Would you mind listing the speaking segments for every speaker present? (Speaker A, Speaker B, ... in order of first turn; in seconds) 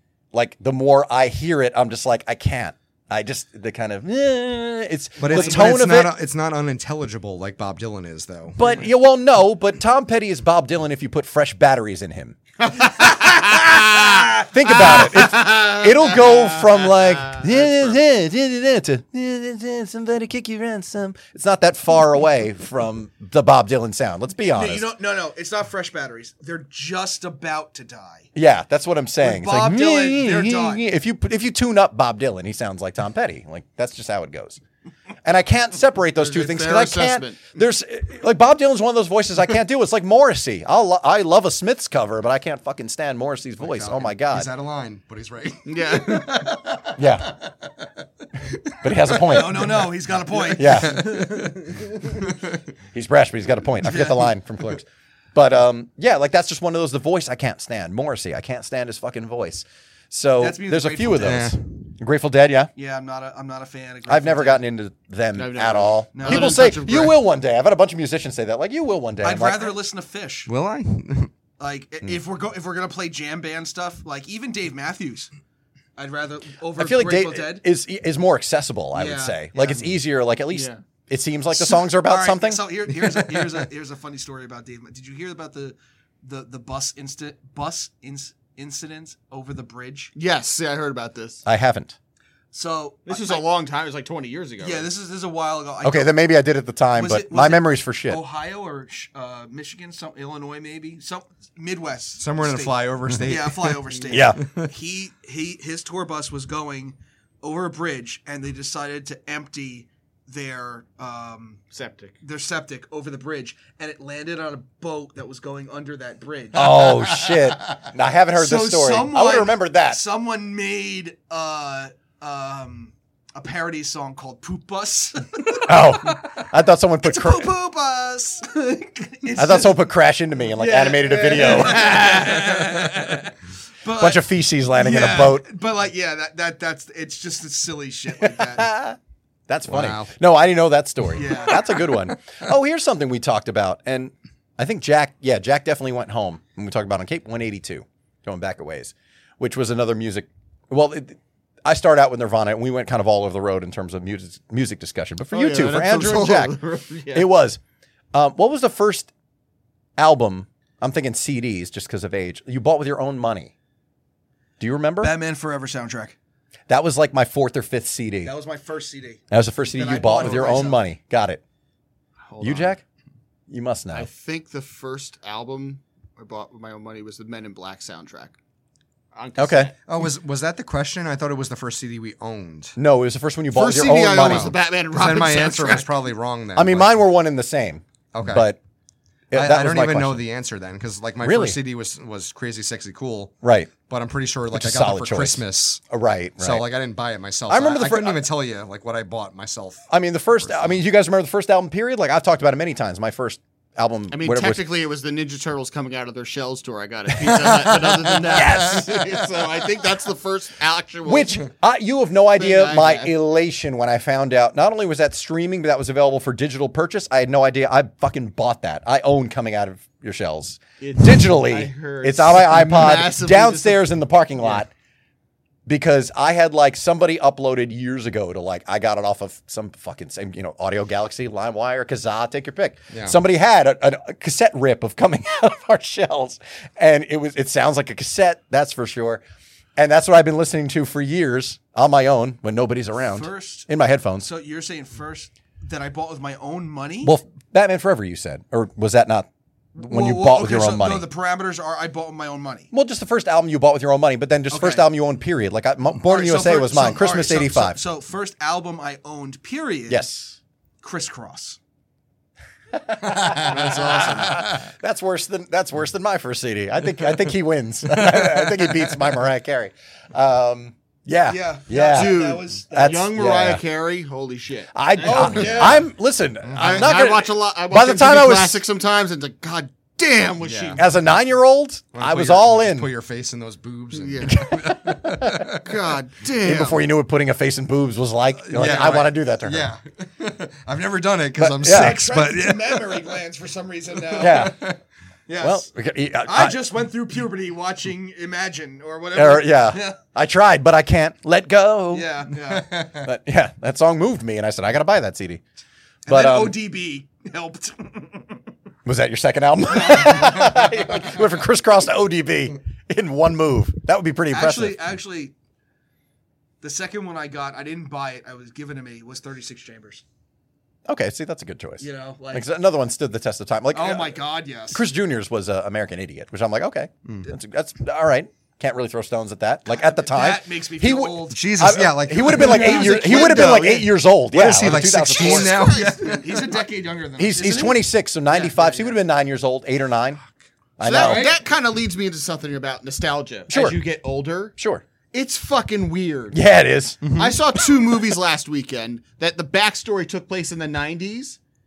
Speaker A: 0.3-6.1, 8.6-12.4, 14.4-24.9, 28.4-34.6, 35.2-44.5, 47.0-47.3, 48.8-49.9, 50.5-51.1, 52.9-62.7, 64.1-69.7, 76.8-82.7, 91.5-92.0, 95.8-98.2, 104.1-104.4, 116.5-120.0, 125.7-127.5, 129.4-132.4, 133.9-135.4, 138.2-139.0, 139.5-156.6, 157.1-157.6, 158.1-159.1, 160.0-163.5, 164.6-165.1, 166.7-168.3, 169.3-171.4, 172.4-172.8, 173.5-174.1, 179.4-179.7, 182.8-184.5, 186.6-188.6, 189.3-190.2, 191.2-191.6, 193.4-193.7, 194.5-196.7, 197.5-198.2, 199.9-204.6, 208.3-209.0, 211.0-224.7, 225.7-239.2, 239.8-244.3, 247.0-251.1, 252.7-257.8, 259.9-260.4, 262.8-273.6, 274.7-278.6, 280.8-282.9, 284.3-285.5, 286.4-289.7, 291.4-292.0, 294.2-294.6, 295.4-296.6, 299.1-302.1, 302.9-305.4, 306.1-306.6, 308.9-314.8, 320.9-324.2, 324.7-335.6, 337.2-340.2, 340.8-341.3, 343.5-343.8, 344.6-344.8, 346.3-347.1
Speaker B: 5.2-8.6, 43.6-46.7, 48.4-52.6, 61.2-61.6, 70.5-71.3, 82.9-83.6, 102.2-103.9, 139.7-140.1, 179.9-182.8, 184.2-187.0, 188.1-188.5, 189.3-193.3, 193.9-195.8, 196.4-199.9, 200.4-200.8, 207.3-208.5, 232.9-233.2, 268.0-268.7, 276.4-276.9, 280.4-280.8, 281.9-285.6, 288.4-293.1, 294.1-294.8, 331.3-336.5, 347.0-347.4
Speaker C: 5.3-5.7, 24.5-28.3, 29.2-30.8, 49.2-51.9, 53.8-54.3, 60.4-61.5, 62.8-64.6, 66.1-66.6, 69.2-70.5, 71.6-75.3, 76.0-77.6, 78.9-79.9, 81.6-90.1, 92.5-93.4, 94.6-96.2, 96.9-111.6, 112.2-117.3, 118.3-126.4, 127.0-129.8, 130.5-138.7, 141.1-141.9, 165.0-166.2, 168.2-170.8, 243.0-243.7, 244.2-247.1, 249.8-252.7, 254.5-254.8, 256.0-260.0, 260.8-261.6, 271.3-273.1, 275.0-275.8, 291.6-294.5, 295.3-295.7, 296.2-300.0, 301.9-303.0, 306.1-308.4, 309.7-311.1, 314.3-315.3, 316.6-320.0, 321.8-322.4, 323.7-324.8, 329.7-331.4, 332.3-333.5, 335.6-339.0, 340.9-341.4
Speaker D: 12.6-17.9, 36.1-37.4, 45.6-46.5, 65.3-67.2, 80.5-80.8, 90.1-91.4, 93.0-94.9, 111.7-112.2, 155.3-157.3, 170.2-170.8, 172.3-172.8, 173.9-178.3, 179.1-179.8, 183.5-185.9, 204.1-211.5, 212.3-213.1, 220.8-223.9, 263.3-264.5, 271.9-275.9, 276.6-280.9, 283.9-284.4, 285.6-286.8, 332.5-333.9, 335.1-336.6, 340.8-344.6, 345.1-346.4, 347.1-351.4